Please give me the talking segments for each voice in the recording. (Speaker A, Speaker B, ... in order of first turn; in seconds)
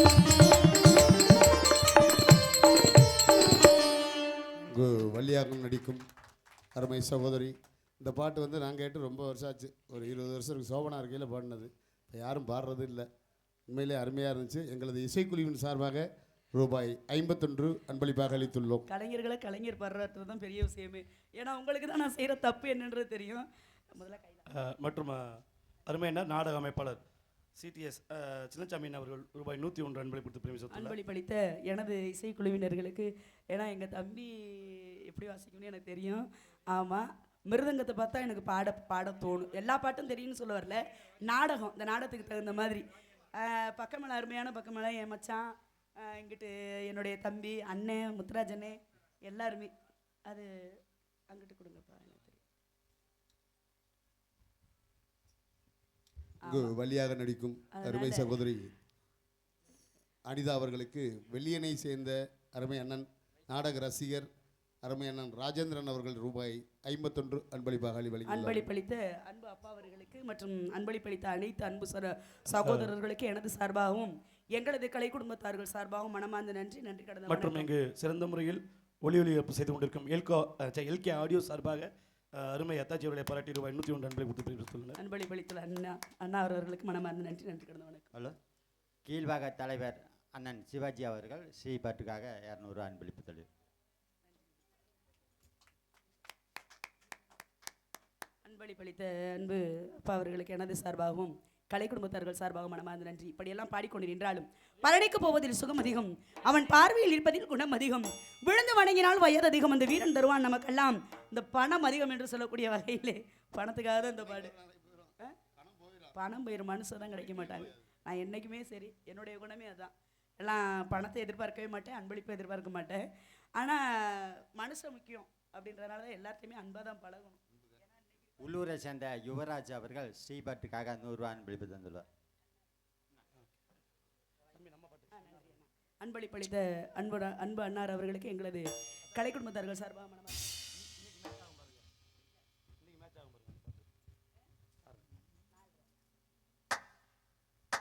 Speaker A: 4.7-6.0, 6.7-13.1, 13.7-18.9, 56.5-58.7, 60.3-64.3, 64.8-68.7, 114.2-116.1
Speaker B: 18.9-24.4, 30.7-49.7, 50.2-50.5, 51.3-52.4, 56.4-56.7, 57.7-58.4, 68.3-77.7, 85.0-88.1, 98.4-114.5, 116.1-127.4, 135.1-140.4
Speaker C: 24.5-27.0, 27.6-30.9, 72.6-72.9, 77.3-85.0, 134.5-135.3, 142.8-143.8
Speaker D: 89.0-93.5, 128.4-132.0